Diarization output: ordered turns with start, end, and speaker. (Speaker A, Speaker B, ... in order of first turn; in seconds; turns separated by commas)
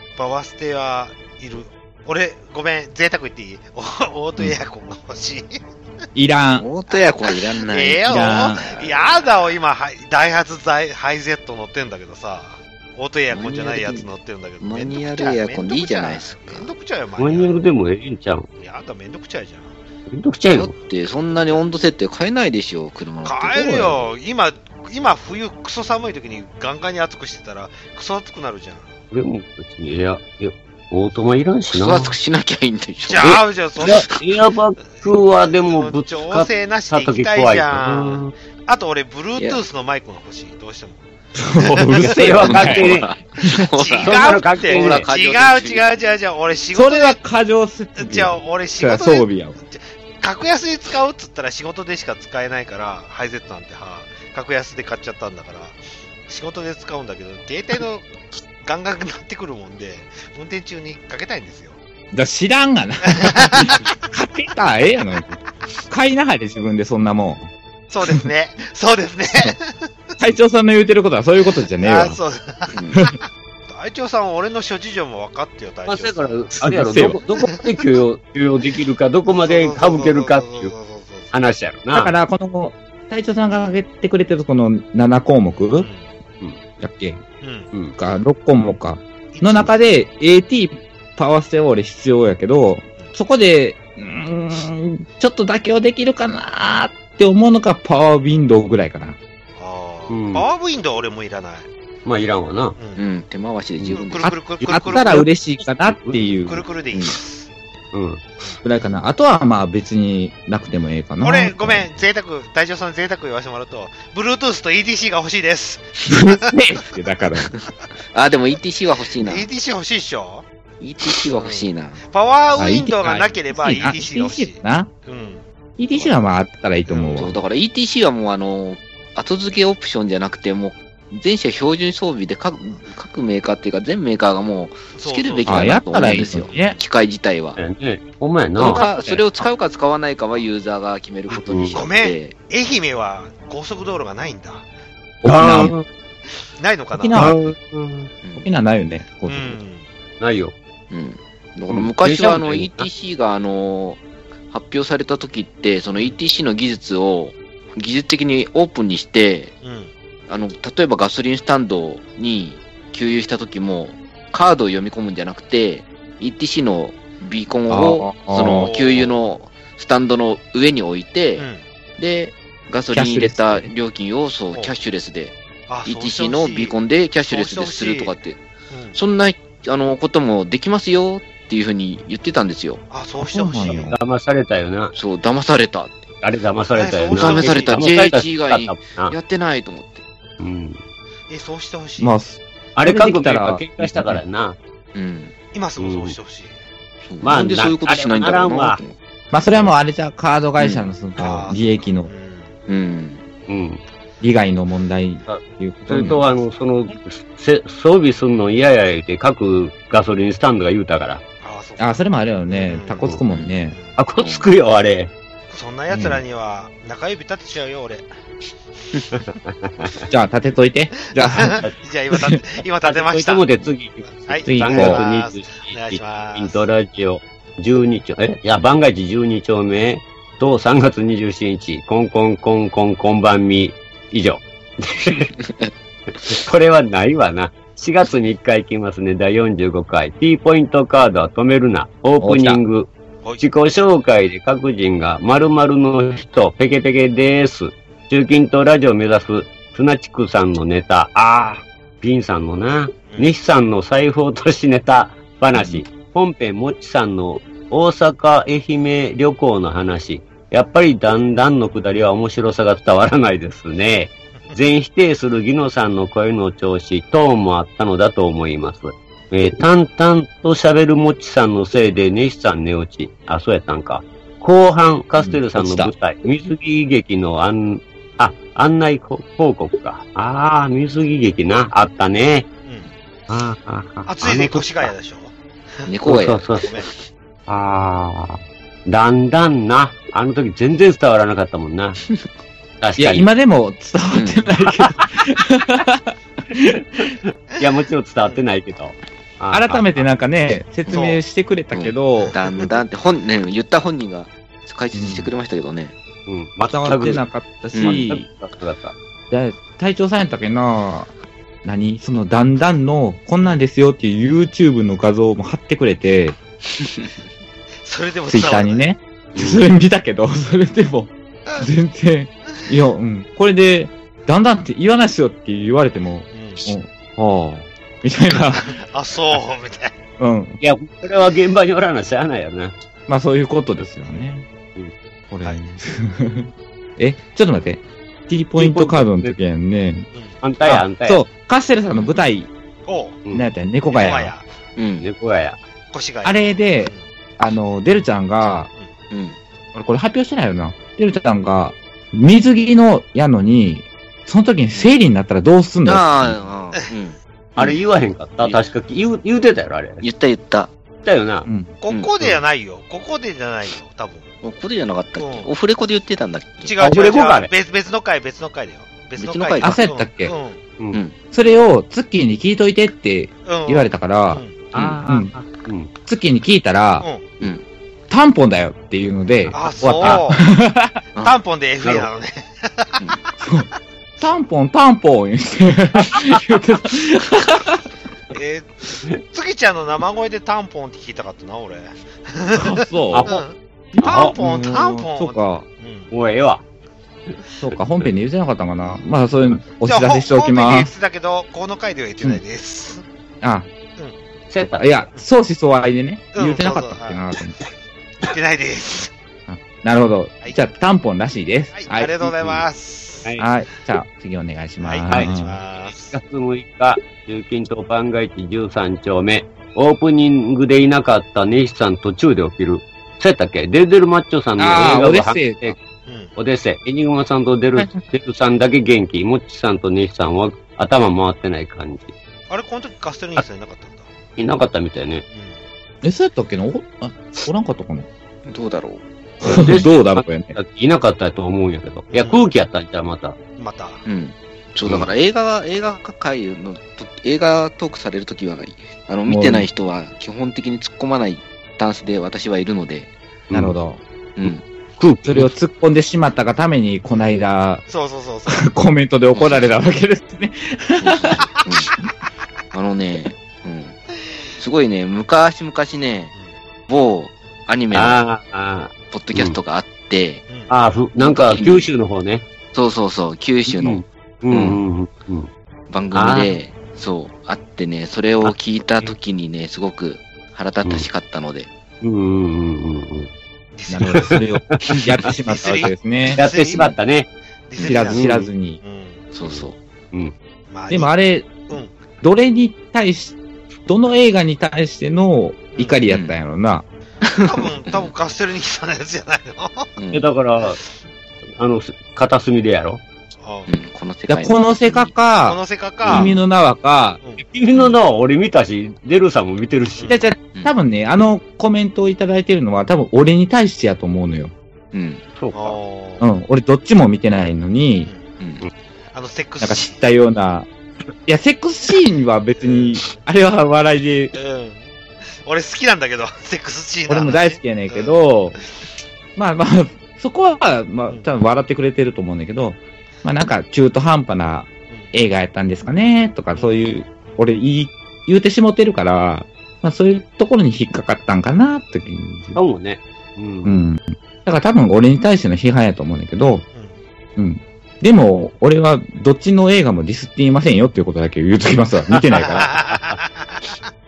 Speaker A: 0.2-5.6, Speaker B: 6.2-6.7, Speaker C: 6.6-9.3, Speaker A: 6.9-17.6, Speaker B: 8.1-8.6, Speaker C: 13.3-14.1, Speaker C: 14.6-16.7, Speaker D: 17.2-18.5, Speaker A: 18.6-19.8, Speaker D: 20.1-20.7, Speaker C: 20.5-24.1, Speaker A: 21.4-21.6, Speaker A: 23.2-28.9, Speaker D: 29.1-32.2, Speaker C: 31.7-34.2, Speaker A: 33.0-34.0, Speaker D: 33.2-38.3, Speaker A: 35.0-41.0, Speaker C: 39.4-39.6, Speaker B: 41.4-42.9, Speaker A: 41.6-42.0, Speaker D: 42.0-43.1, Speaker C: 42.4-45.9, Speaker A: 43.8-47.2, Speaker D: 44.0-45.1, Speaker B: 44.1-44.4, Speaker B: 46.7-49.6, Speaker A: 48.0-61.8, Speaker B: 62.1-67.5, Speaker A: 63.1-63.8, Speaker A: 67.9-70.2, Speaker B: 70.2-72.2, Speaker A: 71.8-76.5, Speaker C: 72.7-73.0, Speaker D: 75.9-80.7, Speaker B: 76.6-77.2, Speaker A: 79.4-81.3, Speaker D: 81.3-82.1, Speaker B: 81.9-85.9, Speaker A: 85.8-86.1, Speaker B: 86.8-87.2, Speaker A: 87.4-87.7, Speaker B: 88.0-99.2, Speaker A: 89.3-89.8, Speaker A: 99.6-101.7, Speaker D: 100.1-100.5, Speaker D: 102.0-102.8, Speaker A: 102.8-103.0, Speaker C: 103.0-104.3, Speaker A: 103.9-105.3, Speaker B: 104.2-106.7, Speaker D: 104.6-105.2, Speaker A: 106.5-107.5, Speaker D: 107.9-108.2, Speaker B: 108.6-111.9, Speaker A: 111.2-116.5, Speaker B: 116.1-117.5, Speaker C: 117.5-119.5, Speaker A: 119.2-120.5, Speaker C: 120.8-122.0, Speaker A: 121.3-125.4, Speaker B: 122.6-124.9, Speaker B: 125.8-127.4, Speaker A: 126.9-127.4, Speaker C: 127.2-137.6, Speaker A: 134.9-136.8, Speaker B: 135.5-136.8, Speaker D: 137.6-138.8, Speaker C: 138.6-142.4, Speaker B: 138.7-139.2, Speaker D: 141.5-141.8, Speaker A: 141.6-144.7, Speaker B: 145.2-145.8, Speaker D: 145.2-145.9, Speaker A: 146.6-147.3, Speaker B: 146.9-147.4, Speaker D: 147.1-148.1, Speaker C: 148.2-148.5, Speaker B: 148.4-149.6, Speaker A: 149.3-149.9, Speaker D: 150.2-150.5, Speaker C: 150.9-159.6, Speaker D: 151.7-152.9, Speaker A: 159.6-159.9, Speaker C: 160.3-175.3, Speaker B: 167.7-168.7, Speaker A: 168.4-169.2, Speaker A: 171.4-171.6, Speaker B: 172.9-173.7, Speaker A: 175.7-178.2, Speaker C: 175.8-178.4, Speaker A: 178.7-179.0, Speaker C: 178.9-182.8, Speaker A: 182.9-183.9, Speaker B: 183.2-184.0, Speaker D: 183.9-184.9, Speaker C: 184.9-186.0, Speaker D: 186.2-189.1, Speaker A: 186.8-187.8, Speaker C: 187.1-190.0, Speaker D: 190.4-190.8, Speaker A: 191.3-192.2, Speaker B: 192.0-194.2, Speaker D: 192.8-194.6, Speaker C: 194.9-195.3, Speaker A: 195.5-196.6, Speaker D: 195.8-196.2, Speaker C: 197.1-199.0, Speaker D: 197.2-198.8, Speaker B: 199.3-202.1, Speaker C: 200.6-200.9, Speaker A: 201.2-202.6, Speaker C: 202.7-203.2, Speaker D: 203.5-203.8, Speaker B: 204.2-206.2, Speaker D: 205.3-211.2, Speaker A: 211.4-212.0, Speaker B: 211.8-213.8, Speaker A: 212.5-213.1, Speaker A: 213.7-214.0, Speaker D: 214.0-215.1, Speaker C: 214.2-214.5, Speaker A: 215.5-218.1, Speaker B: 215.9-216.2, Speaker D: 219.5-220.0, Speaker B: 220.1-221.6, Speaker A: 221.1-223.5, Speaker D: 221.4-221.8, Speaker B: 222.1-222.4, Speaker D: 222.8-235.3, Speaker A: 224.0-226.6, Speaker B: 224.5-225.0, Speaker C: 235.4-235.7, Speaker D: 236.2-282.5, Speaker B: 242.2-242.6, Speaker A: 253.1-253.3, Speaker B: 255.6-255.8, Speaker B: 275.2-275.9, Speaker D: 283.3-284.9, Speaker A: 284.1-285.9, Speaker C: 285.9-287.0, Speaker D: 286.1-286.7, Speaker A: 286.6-286.9, Speaker D: 287.5-292.0, Speaker D: 292.8-293.3, Speaker B: 293.0-297.1, Speaker C: 294.1-294.5, Speaker D: 297.6-300.1, Speaker B: 299.5-302.3, Speaker A: 300.9-301.2, Speaker C: 301.7-305.9, Speaker B: 304.9-305.3, Speaker D: 306.3-307.2, Speaker B: 306.6-308.2, Speaker C: 307.7-308.1, Speaker D: 307.8-308.9, Speaker B: 309.3-311.1, Speaker B: 311.6-316.4, Speaker C: 316.8-317.1, Speaker A: 317.8-318.9, Speaker B: 318.3-328.7, Speaker D: 319.4-319.6, Speaker A: 326.3-326.7, Speaker A: 328.5-329.9, Speaker B: 330.2-330.6, Speaker D: 330.6-332.8, Speaker B: 333.1-334.5, Speaker B: 335.3-340.1, Speaker D: 338.6-339.4, Speaker A: 340.1-340.4, Speaker D: 340.4-341.2, Speaker B: 340.6-342.5, Speaker A: 342.9-343.2, Speaker B: 343.3-344.4, Speaker A: 343.9-344.4, Speaker C: 344.8-345.1, Speaker D: 345.0-345.6, Speaker A: 345.9-347.0, Speaker B: 346.2-348.7, Speaker C: 349.1-349.4, Speaker B: 349.7-356.4, Speaker C: 355.9-357.8, Speaker D: 357.6-360.0, Speaker C: 360.0-360.7, Speaker D: 361.0-361.5, Speaker B: 361.4-361.8, Speaker A: 361.8-364.3, Speaker C: 364.4-366.8, Speaker A: 365.2-365.5, Speaker A: 366.6-370.6, Speaker D: 366.8-367.5, Speaker C: 369.2-369.8, Speaker B: 369.6-370.3, Speaker B: 371.3-374.4, Speaker A: 373.5-374.6, Speaker D: 374.7-375.9, Speaker B: 375.1-375.3, Speaker B: 376.1-377.1, Speaker B: 378.1-381.0, Speaker A: 379.5-380.4, Speaker A: 381.2-383.3, Speaker B: 383.4-383.7, Speaker B: 384.2-387.8, Speaker A: 388.3-388.8, Speaker A: 389.3-396.1, Speaker B: 392.6-393.3, Speaker D: 393.1-393.4, Speaker B: 393.9-395.7, Speaker D: 394.0-394.3, Speaker D: 396.1-396.6, Speaker B: 397.6-400.9, Speaker A: 399.8-403.1, Speaker B: 403.4-403.7, Speaker D: 404.5-404.9, Speaker B: 404.6-407.6, Speaker A: 406.4-407.2, Speaker A: 408.2-409.1, Speaker B: 409.5-412.4, Speaker A: 411.7-413.3, Speaker B: 413.4-415.6, Speaker A: 414.8-416.2, Speaker D: 415.9-425.8, Speaker B: 424.6-425.8, Speaker A: 426.1-426.3, Speaker D: 426.4-432.1, Speaker B: 427.8-428.0, Speaker A: 432.5-434.1, Speaker D: 434.4-435.2, Speaker A: 435.3-435.6, Speaker B: 436.0-438.1, Speaker C: 438.5-439.0, Speaker B: 439.4-440.6, Speaker D: 439.6-443.4, Speaker A: 442.1-442.5, Speaker A: 443.6-444.0, Speaker C: 444.1-453.1, Speaker D: 444.9-445.1, Speaker B: 449.3-449.7, Speaker B: 453.5-454.0, Speaker C: 454.4-454.6, Speaker D: 455.0-455.5, Speaker B: 455.3-457.9, Speaker A: 457.9-458.7, Speaker B: 458.5-461.4, Speaker C: 459.3-459.6, Speaker C: 461.0-461.9, Speaker C: 462.7-464.0, Speaker C: 464.6-466.3, Speaker C: 466.9-468.2, Speaker D: 467.9-469.6, Speaker C: 469.1-470.5, Speaker D: 470.7-472.5, Speaker C: 471.2-471.9, Speaker C: 472.7-474.8, Speaker D: 473.7-475.5, Speaker C: 475.9-481.7, Speaker D: 476.1-476.6, Speaker D: 478.4-479.1, Speaker D: 482.0-483.3, Speaker A: 483.8-484.4, Speaker B: 483.9-486.4, Speaker D: 484.0-485.3, Speaker A: 485.5-486.9, Speaker D: 486.4-487.3, Speaker A: 487.7-488.3, Speaker B: 487.8-488.8, Speaker D: 488.1-488.5, Speaker A: 488.8-489.2, Speaker C: 489.3-489.8, Speaker D: 489.4-490.3, Speaker A: 490.7-491.1, Speaker B: 490.9-491.7, Speaker A: 491.7-492.0, Speaker B: 492.2-496.9, Speaker A: 495.7-496.0, Speaker C: 496.1-496.3, Speaker C: 497.2-498.1, Speaker A: 497.4-500.0, Speaker C: 500.0-500.2, Speaker D: 500.1-500.8, Speaker D: 501.6-503.0, Speaker A: 503.4-503.7, Speaker C: 503.7-505.1, Speaker B: 504.3-507.2, Speaker A: 505.4-506.3, Speaker C: 506.1-506.3, Speaker D: 507.4-510.1, Speaker A: 510.0-510.2, Speaker B: 510.1-514.5, Speaker C: 514.9-515.2, Speaker D: 515.4-515.8, Speaker A: 515.5-516.3, Speaker B: 516.2-518.1, Speaker A: 519.1-520.0, Speaker B: 519.6-520.7, Speaker B: 521.3-524.4, Speaker A: 522.6-523.0, Speaker A: 524.3-528.2, Speaker B: 527.1-528.6, Speaker B: 529.4-542.6, Speaker A: 536.5-536.8, Speaker D: 542.5-543.8, Speaker B: 543.6-546.7, Speaker A: 546.5-547.0, Speaker B: 547.4-552.8, Speaker A: 552.4-553.8